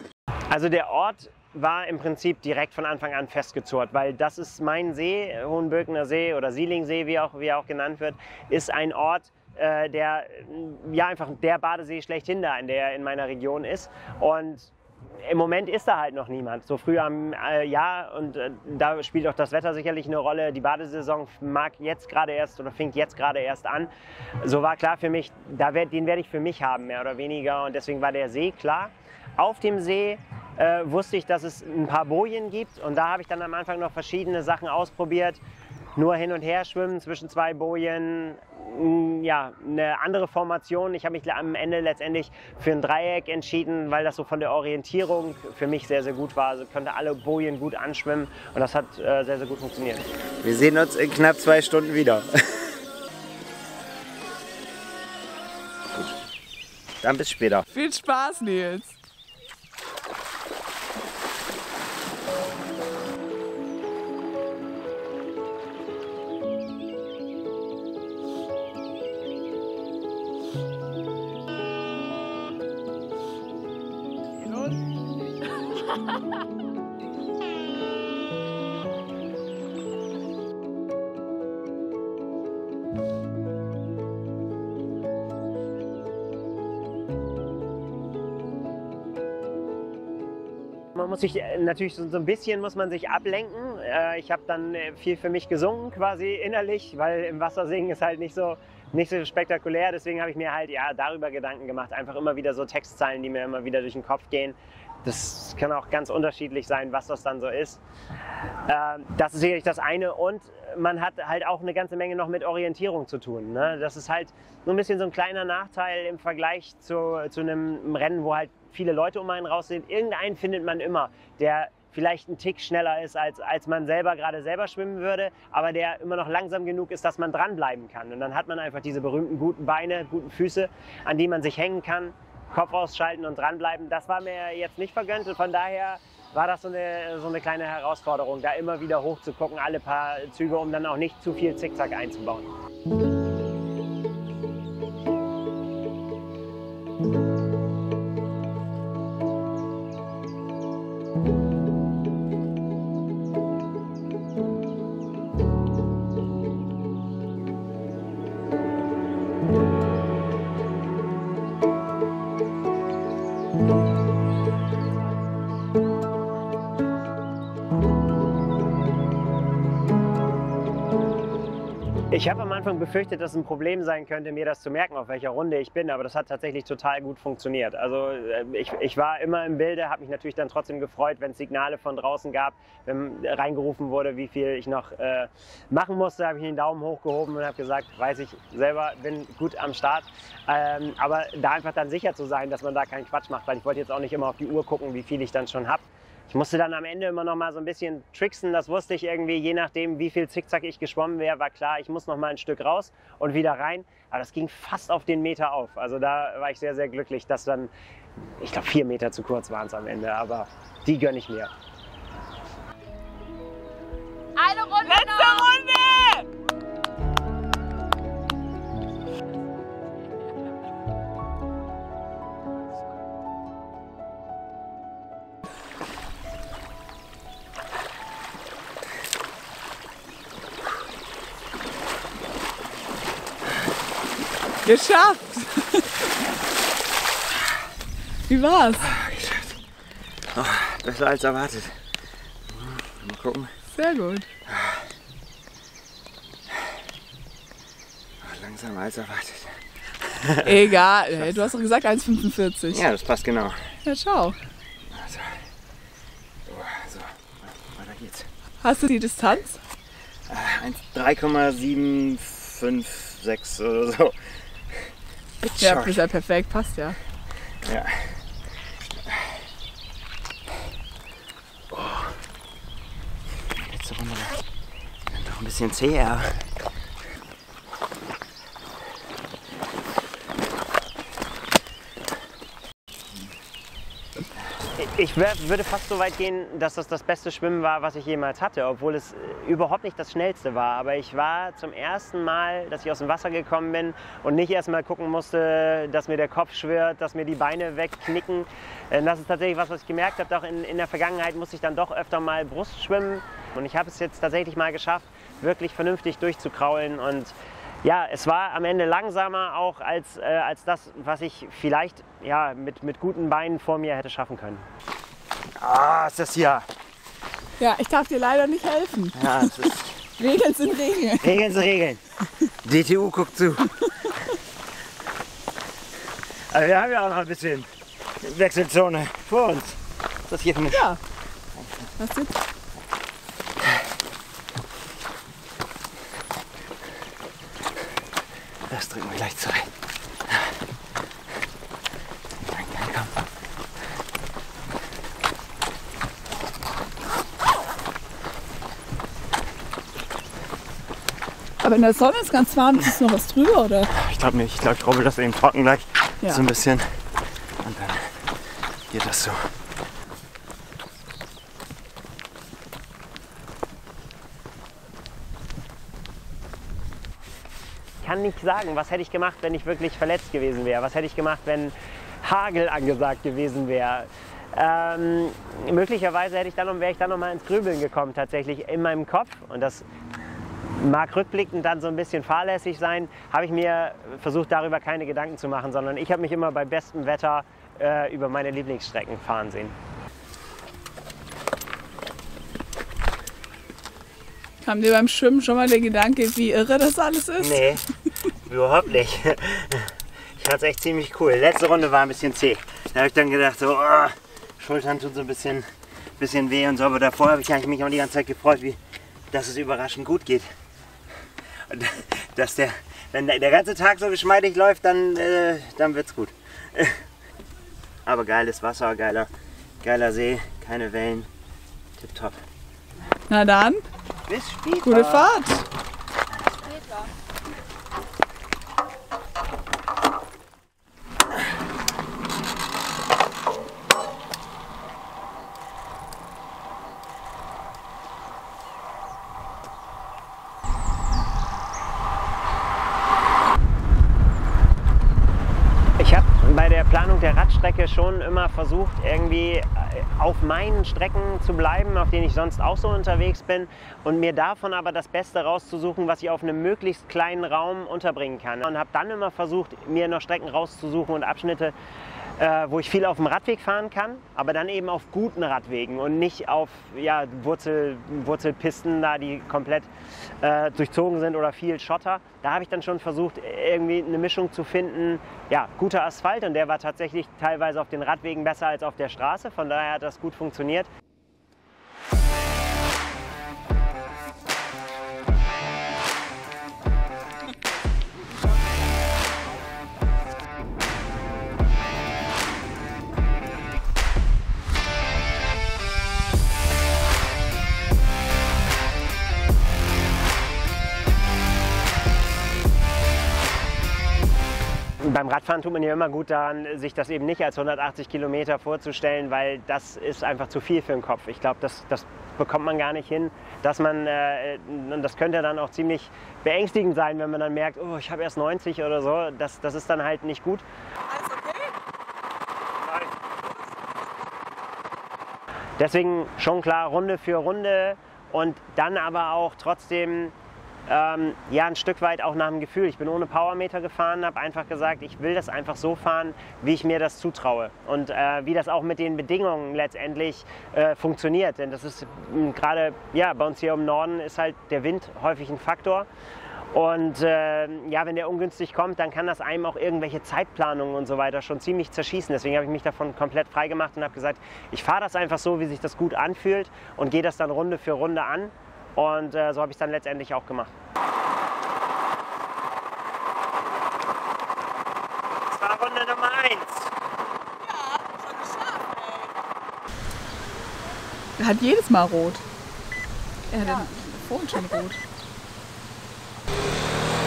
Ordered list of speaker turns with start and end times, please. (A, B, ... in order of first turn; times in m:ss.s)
0:00.5-0:14.7 A
0:15.2-0:23.9 A
0:24.4-0:35.4 A
0:36.0-0:50.0 A
0:50.4-0:52.6 B
0:57.0-0:57.7 B
0:57.7-0:59.0 C
1:31.0-1:47.8 A
1:48.7-2:22.5 A
2:52.1-3:27.7 A
3:28.4-3:31.5 A
3:34.4-3:35.6 D
3:34.8-3:36.2 C
3:54.6-3:56.0 C
3:58.3-3:58.9 C
3:58.8-3:59.5 B
4:00.3-4:01.8 B
4:02.5-4:03.5 B
4:03.7-4:04.3 C
4:04.5-4:04.8 B
4:08.2-4:10.5 B
4:10.4-4:12.8 C
4:12.7-4:13.7 B
4:13.8-4:14.4 C
4:14.9-4:15.4 B
4:16.4-4:18.3 B
4:18.6-4:19.6 C
4:20.3-4:24.2 B
4:25.4-4:27.0 C
4:25.4-4:26.0 B
4:27.6-4:28.2 B
4:31.7-4:32.2 B
4:33.5-4:34.4 B
4:35.1-4:36.5 B
4:44.8-5:14.6 A
5:15.6-5:16.6 B
5:17.6-5:21.4 C
5:19.1-5:20.0 B
5:21.2-5:22.0 B
5:22.6-5:23.7 B
5:26.5-5:27.7 B
5:28.2-5:29.8 B
5:30.3-5:30.9 B
5:30.7-5:31.0 C
5:31.6-5:31.9 B
5:32.0-5:32.4 C
5:38.7-5:39.7 B
5:42.4-5:43.1 B
5:51.6-5:53.9 C
5:53.9-5:57.0 B
5:57.6-5:58.3 B
5:58.9-5:59.5 B
6:08.0-6:19.8 A
6:20.8-6:29.7 A
6:34.6-6:37.7 C
6:37.4-6:37.8 B
6:38.4-6:39.8 B
6:40.4-6:45.7 B
6:46.2-6:48.8 B
6:49.3-6:50.5 B
6:51.7-6:56.9 B
6:58.0-6:59.3 B
6:59.8-7:01.3 B
7:02.0-7:02.4 B
7:03.3-7:03.8 C
7:04.3-7:05.2 B
7:04.8-7:05.6 C
7:06.6-7:07.1 D
7:26.0-7:41.7 A
7:42.4-7:49.9 A
7:50.4-8:00.9 A
8:25.0-8:40.6 A
8:41.1-8:41.6 C
8:41.3-8:41.6 D
8:42.8-8:43.1 A
8:45.8-8:50.3 A
8:50.9-9:06.1 A
9:06.7-9:20.7 A
9:25.5-9:26.9 A
9:27.6-9:29.3 D
9:31.4-9:32.4 C
9:33.5-9:35.0 C
9:33.6-9:33.9 D